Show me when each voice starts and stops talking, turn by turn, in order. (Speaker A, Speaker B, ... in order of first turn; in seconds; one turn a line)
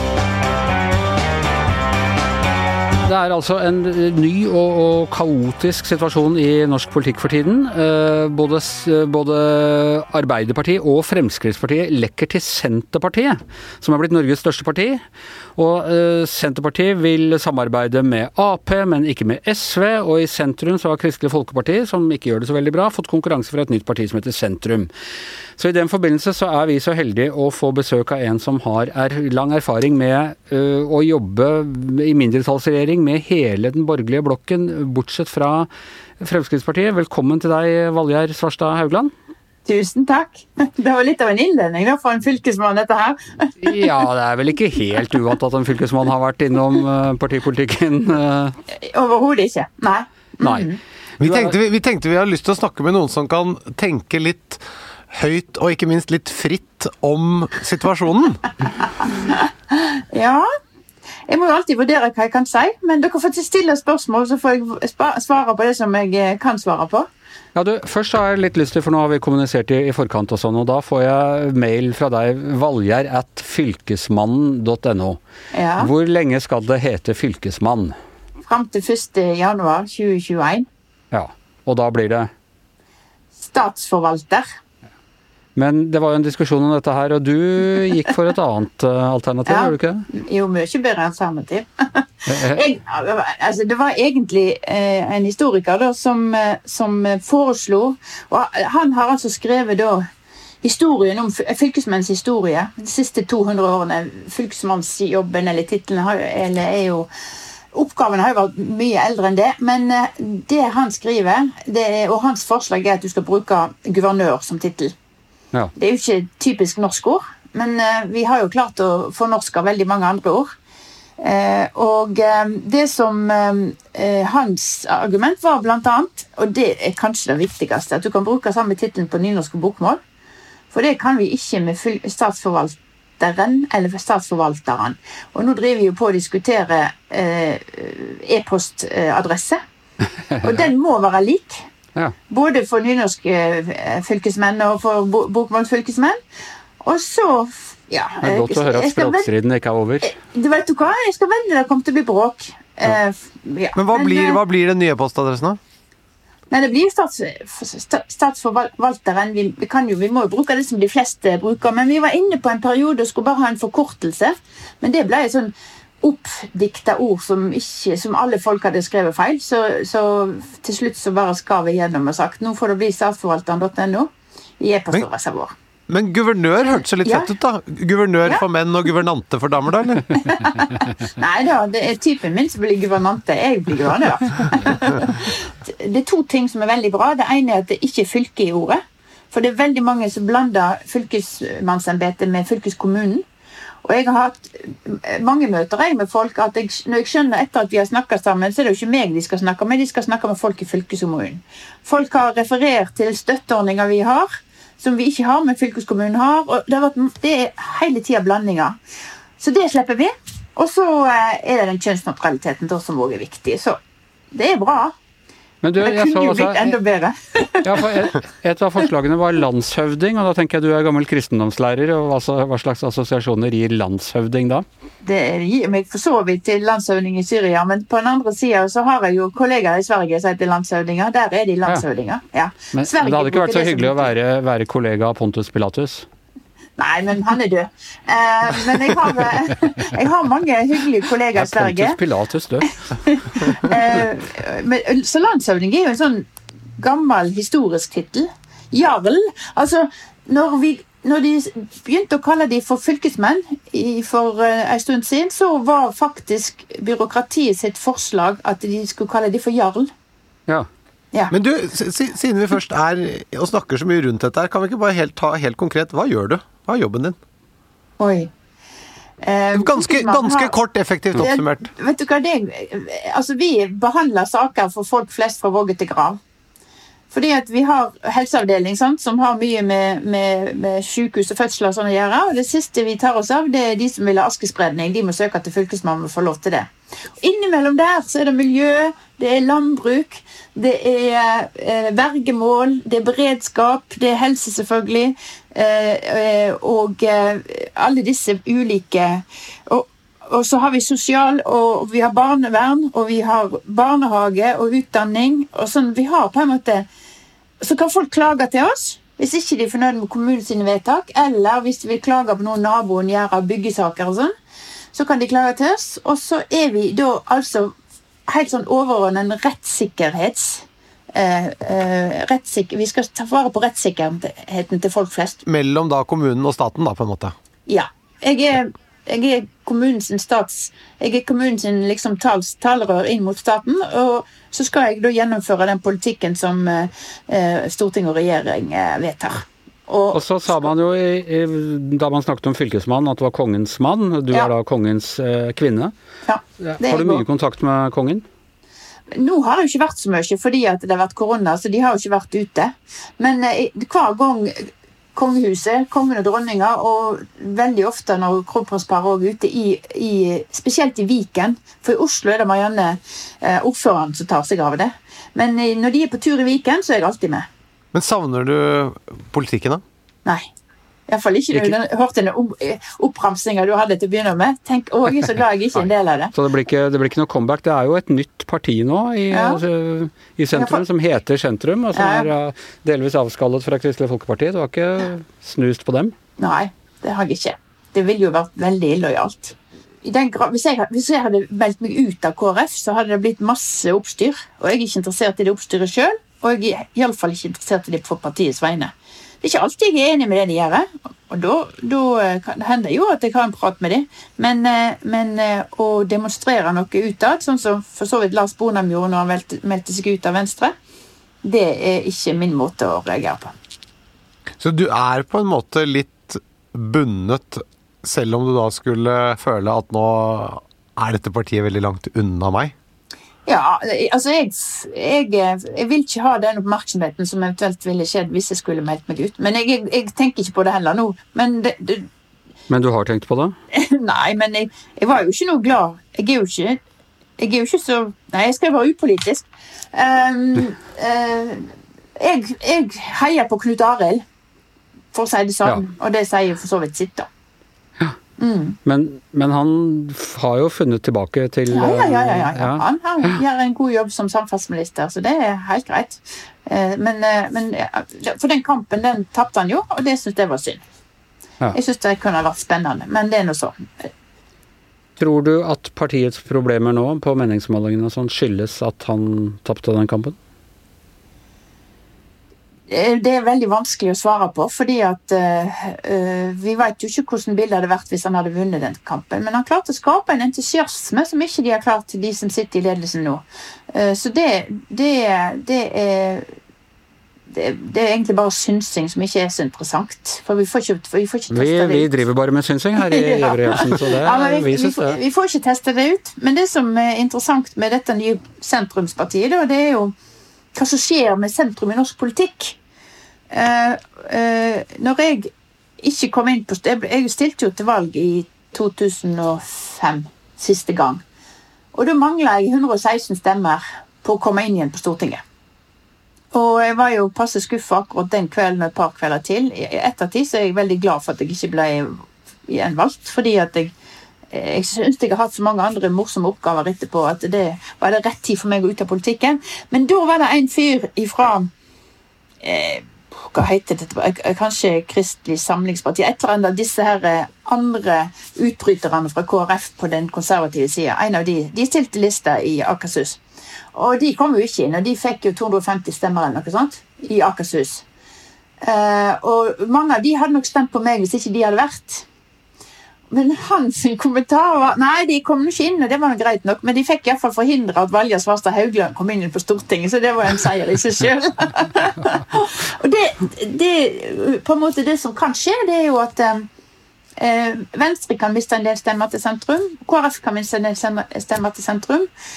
Speaker A: 3.0-15.0
Speaker A: 15.6-24.9
Speaker A: 25.6-35.7
Speaker A: 36.2-39.1
Speaker B: 39.7-44.0
Speaker A: 43.6-48.6
Speaker B: 48.7-50.8
Speaker A: 50.4-51.5
Speaker C: 51.2-58.5
Speaker B: 59.0-60.5
Speaker B: 61.3-67.1
Speaker A: 67.5-75.2
Speaker B: 75.5-75.9
Speaker A: 75.8-78.0
Speaker B: 78.5-80.7
Speaker A: 81.1-82.3
Speaker B: 83.4-84.5
Speaker A: 85.6-90.1
Speaker B: 89.5-100.1
Speaker A: 92.3-92.6
Speaker B: 100.6-107.1
Speaker B: 107.7-114.9
Speaker B: 115.8-120.5
Speaker B: 121.2-130.0
Speaker B: 130.7-139.6
Speaker A: 140.3-140.7
Speaker B: 140.4-141.7
Speaker B: 142.3-146.2
Speaker B: 146.8-149.3
Speaker A: 148.2-150.1
Speaker B: 150.0-154.4
Speaker C: 153.8-155.6
Speaker B: 156.5-175.5
Speaker C: 175.9-180.2
Speaker B: 177.0-177.3
Speaker B: 180.2-193.2
Speaker B: 193.8-208.8
Speaker B: 209.4-213.8
Speaker B: 214.3-214.9
Speaker A: 215.6-216.8
Speaker B: 215.8-218.1
Speaker A: 217.6-224.7
Speaker B: 225.0-234.1
Speaker A: 232.7-236.1
Speaker B: 236.8-242.0
Speaker A: 241.4-244.0
Speaker B: 242.9-246.3
Speaker B: 246.8-259.9
Speaker C: 261.3-267.2
Speaker B: 268.0-268.3
Speaker B: 269.2-270.6
Speaker C: 269.6-271.7
Speaker B: 271.2-276.2
Speaker B: 277.1-286.7
Speaker B: 287.2-306.9
Speaker B: 307.6-314.3
Speaker B: 314.9-317.7
Speaker B: 318.3-325.4
Speaker C: 325.4-327.4
Speaker B: 327.7-340.7
Speaker A: 340.1-345.9
Speaker B: 346.3-347.2
Speaker A: 346.6-348.2
Speaker B: 349.1-367.5
Speaker C: 367.9-369.8
Speaker B: 371.1-376.3
Speaker A: 376.3-386.1
Speaker B: 379.3-379.6
Speaker B: 380.5-380.8
Speaker B: 381.9-382.3
Speaker B: 386.4-410.8
Speaker B: 411.4-413.5
Speaker C: 414.6-422.7
Speaker B: 423.5-432.1
Speaker A: 432.7-433.6
Speaker B: 433.7-436.8
Speaker B: 437.4-444.2
Speaker B: 445.1-447.3
Speaker B: 448.4-448.8
Speaker A: 448.9-453.4
Speaker B: 451.7-460.8
Speaker B: 461.7-464.1
Speaker A: 465.2-470.4
Speaker B: 472.9-486.5
Speaker B: 487.5-492.1
Speaker A: 491.5-495.2
Speaker B: 493.0-500.1
Speaker B: 500.7-502.8
Speaker B: 503.5-511.2
Speaker B: 511.9-515.4
Speaker B: 516.5-523.9
Speaker B: 524.5-531.7
Speaker B: 532.6-543.4
Speaker B: 543.9-548.0
Speaker B: 548.8-552.3
Speaker B: 553.3-566.7
Speaker B: 567.4-572.3